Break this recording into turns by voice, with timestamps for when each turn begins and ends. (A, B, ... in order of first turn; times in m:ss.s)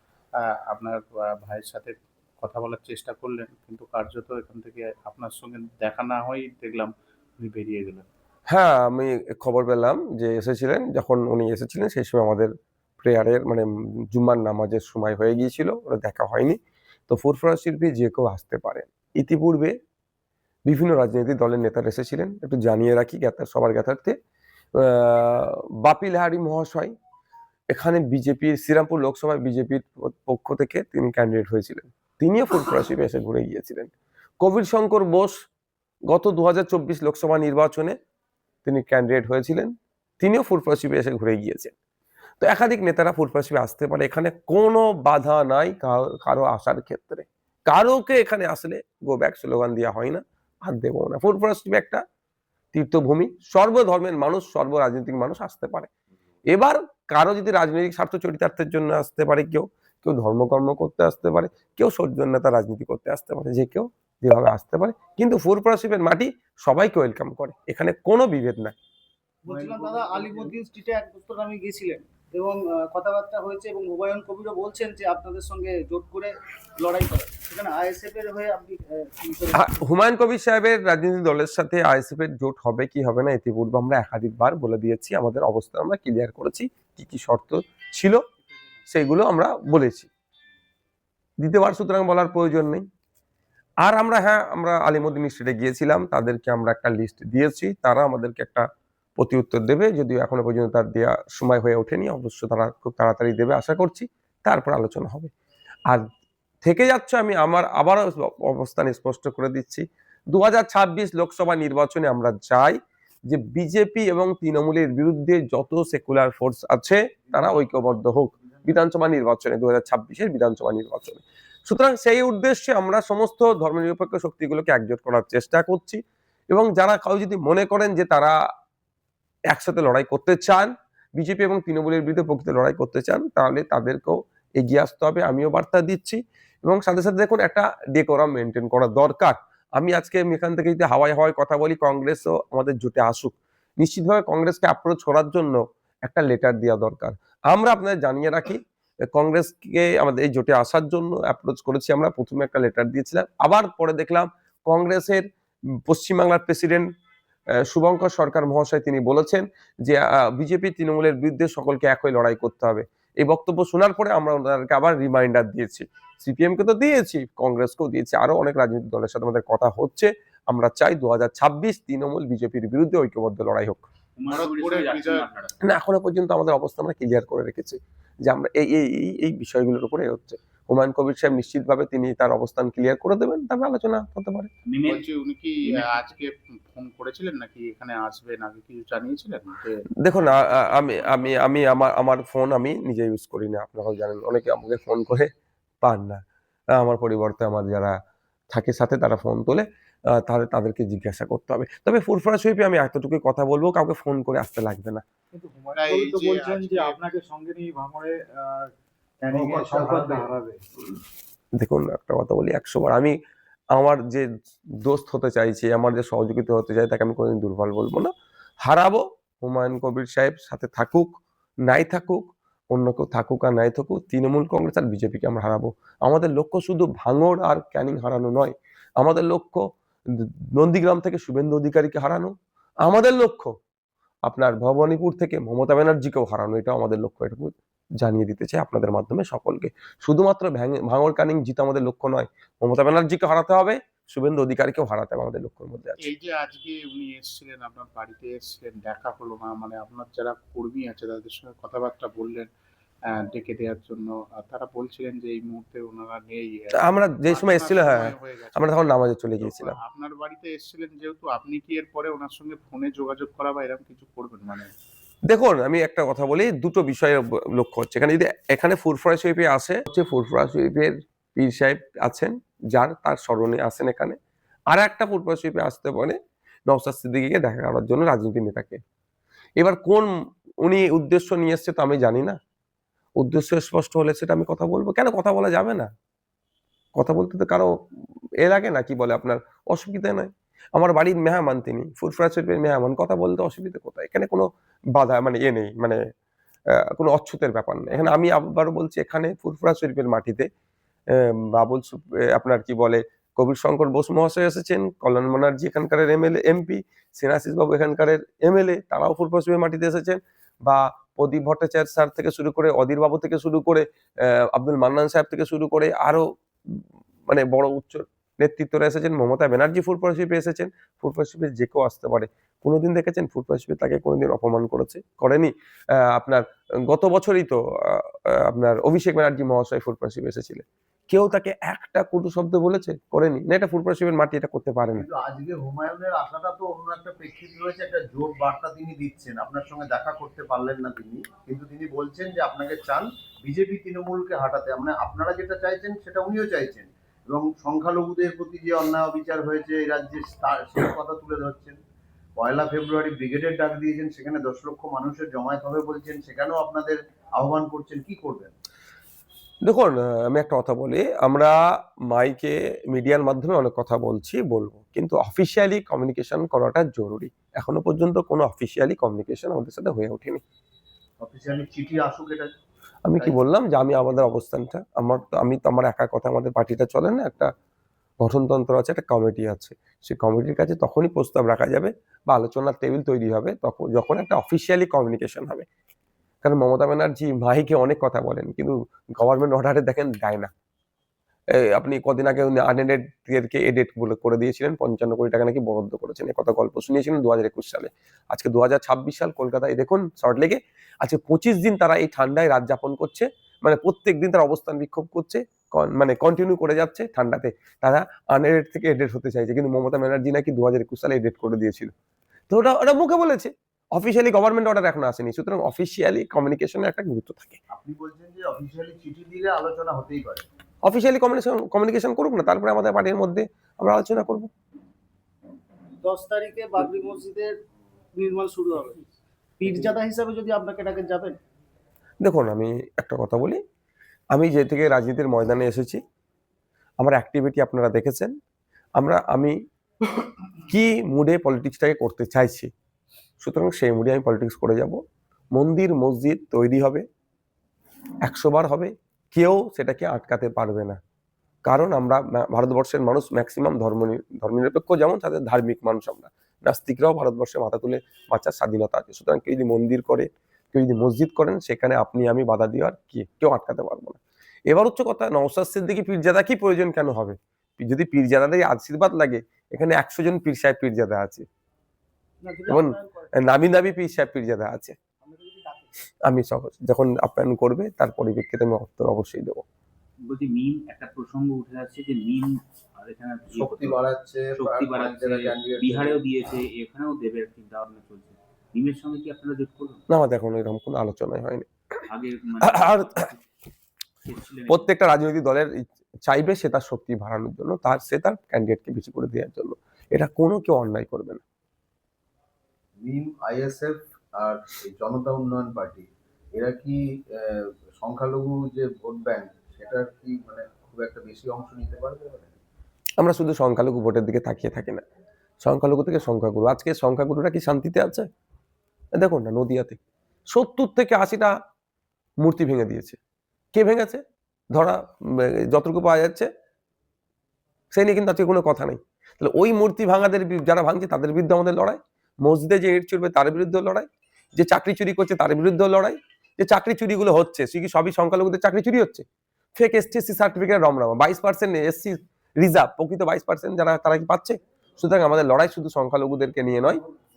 0:00.4-0:08.1 A
0:08.5-0:19.8 B
0:20.7-0:24.2 B
0:24.8-0:26.9 B
0:27.7-0:35.3 B
0:36.1-0:38.0 B
0:38.6-0:41.7 B
0:42.4-0:52.0 B
0:52.7-0:55.9 B
0:56.5-1:08.7 B
1:09.4-1:19.8 C
1:09.5-1:10.6 D
1:19.5-1:28.2 B
1:28.9-1:30.1 B
1:31.4-1:32.8 B
1:33.8-1:38.6 B
1:39.2-1:45.3 B
1:46.6-2:08.4 B
1:57.3-1:58.8 D
2:09.5-2:28.6 B
2:29.1-2:35.2 B
2:35.9-2:36.9 B
2:37.6-2:53.9 B
2:54.2-2:55.5 E
2:54.3-2:55.3 A
2:55.6-3:04.5 B
3:04.7-3:05.0 E
3:04.8-3:09.9 A
3:05.7-3:06.0 E
3:10.0-3:15.3 B
3:10.7-3:11.3 A
3:15.8-3:16.2 B
3:16.8-3:18.0 B
3:18.5-3:25.0 B
3:25.3-3:30.6 F
3:25.7-3:27.0 A
3:29.3-3:30.3 D
3:31.6-3:33.2 B
3:33.7-3:34.3 B
3:34.8-3:38.1 B
3:38.6-3:41.2 B
3:41.7-3:52.3 B
3:52.8-3:53.5 B
3:54.3-4:06.1 B
4:06.0-4:12.5 A
4:13.1-4:24.7 A
4:16.8-4:19.8 B
4:25.3-4:34.2 B
4:34.7-4:36.2 B
4:36.7-4:38.8 B
4:39.6-4:40.1 B
4:40.6-4:42.4 B
4:43.2-4:45.9 B
4:47.0-4:47.7 B
4:48.4-4:56.0 B
4:57.0-5:00.5 B
5:01.1-5:35.1 B
5:35.0-5:51.8 D
5:52.4-5:58.5 D
5:59.6-6:01.6 B
6:02.1-6:10.4 B
6:11.2-6:12.5 D
6:13.1-6:17.5 B
6:13.2-6:13.5 D
6:18.2-6:25.7 B
6:26.4-6:30.5 B
6:31.5-6:51.9 B
6:52.5-6:57.6 B
6:57.7-7:00.5 D
7:00.8-7:04.5 B
7:06.0-7:07.5 C
7:08.2-7:09.1 C
7:09.6-7:11.4 C
7:12.2-7:13.6 B
7:14.3-7:16.0 B
7:17.0-7:18.3 B
7:19.0-7:19.6 B
7:20.7-7:22.7 B
7:23.4-7:25.0 B
7:25.5-7:27.0 B
7:28.2-7:31.0 B
7:31.6-7:51.5 B
7:52.4-7:53.5 C
7:52.7-7:55.0 B
7:55.2-7:56.0 C
7:56.3-7:59.6 B
8:00.3-8:04.0 E
8:03.5-8:06.2 D
8:04.6-8:10.0 E
8:10.1-8:11.7 B
8:12.2-8:13.4 E
8:12.6-8:13.3 B
8:14.2-8:14.9 E
8:14.7-8:15.7 B
8:16.2-8:21.4 B
8:23.0-8:32.6 D
8:33.2-8:35.0 B
8:35.6-8:38.3 B
8:39.2-8:40.0 B
8:40.5-8:41.5 B
8:42.4-8:43.2 B
8:43.7-8:44.2 B
8:44.7-8:46.5 B
8:47.9-8:59.2 B
8:59.8-9:07.0 B